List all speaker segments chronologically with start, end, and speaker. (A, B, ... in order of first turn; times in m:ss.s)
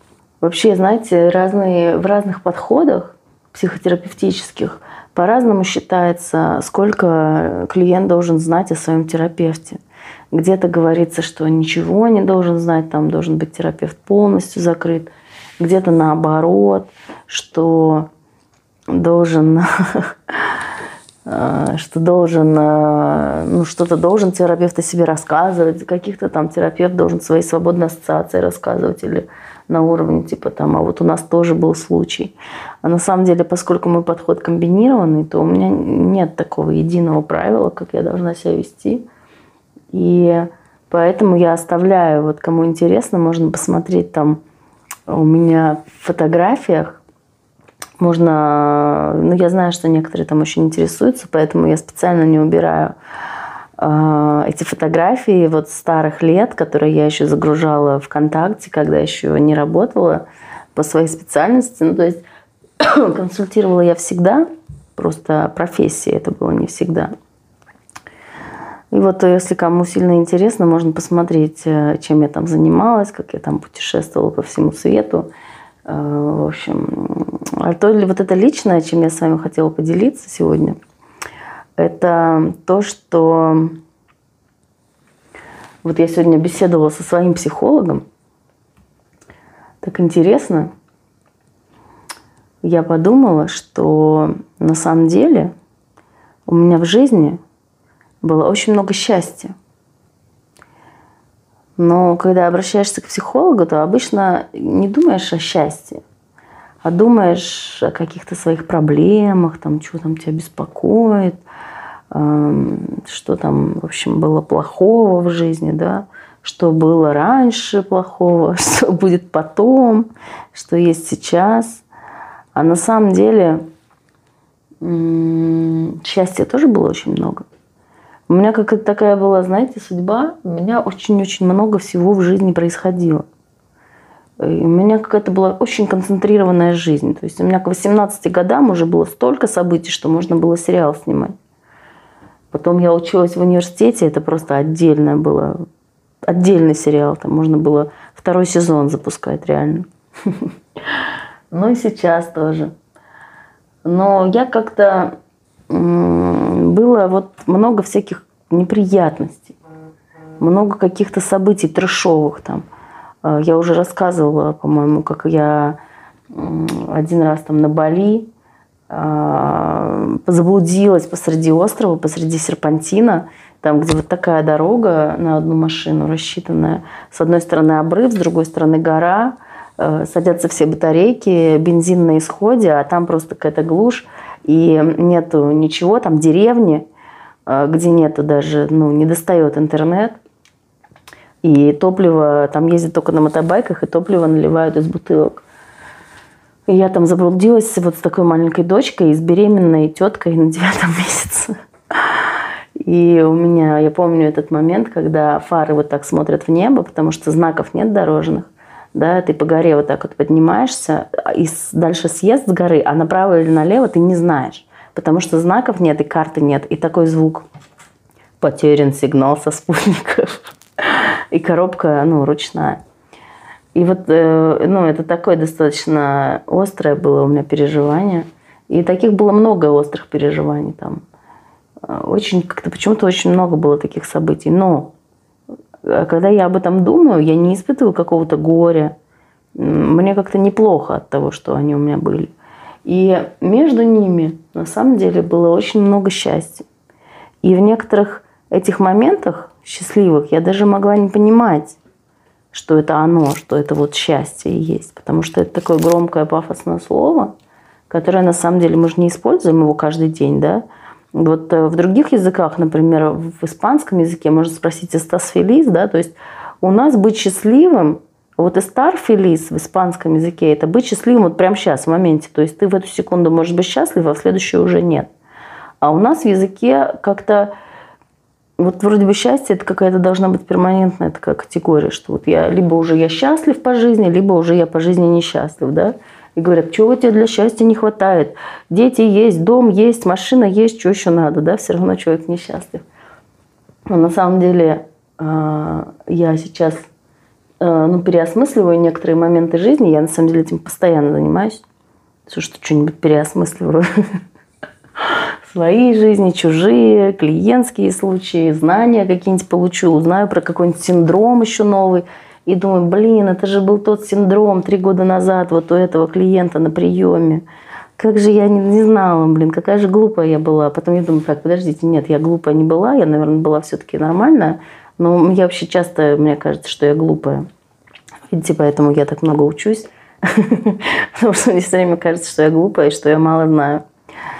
0:00.4-0:09.8 A
0:10.3-0:18.1 A
0:18.9-0:20.6 A
0:21.2-0:39.0 A
0:39.9-0:44.4 A
0:45.1-0:47.0 A
0:48.0-0:53.0 A
0:53.8-1:02.2 A
1:02.8-1:07.1 A
1:08.9-1:15.3 A
1:15.8-1:20.8 A
1:21.8-1:23.8 A
1:25.8-1:28.0 A
1:29.8-1:30.7 A
1:32.6-1:35.5 A
1:36.5-1:37.4 A
1:38.2-1:39.5 A
1:41.8-1:46.0 A
1:46.8-1:51.4 A
1:52.1-2:01.8 A
2:02.5-2:03.6 A
2:04.8-2:07.4 A
2:08.3-2:13.2 A
2:14.4-2:21.3 A
2:22.5-2:25.6 A
2:26.3-2:32.7 A
2:33.8-2:35.1 A
2:35.7-2:39.6 A
2:40.4-2:42.6 A
2:43.2-2:45.8 A
2:46.3-2:48.3 A
2:48.9-3:06.8 A
3:07.5-3:10.2 A
3:11.4-3:15.4 A
3:16.7-3:37.5 A
3:38.4-3:42.8 A
3:43.8-3:51.0 A
3:51.8-3:54.9 A
3:55.8-3:58.9 A
3:59.5-4:02.3 A
4:02.8-4:06.7 A
4:07.4-4:11.8 A
4:12.5-4:17.3 A
4:17.9-4:35.1 A
4:35.8-4:37.5 A
4:38.6-4:52.8 A
4:53.9-4:56.9 A
4:57.6-5:01.6 A
5:02.3-5:03.9 A
5:05.0-5:17.4 A
5:18.0-5:27.4 A
5:28.3-5:33.8 A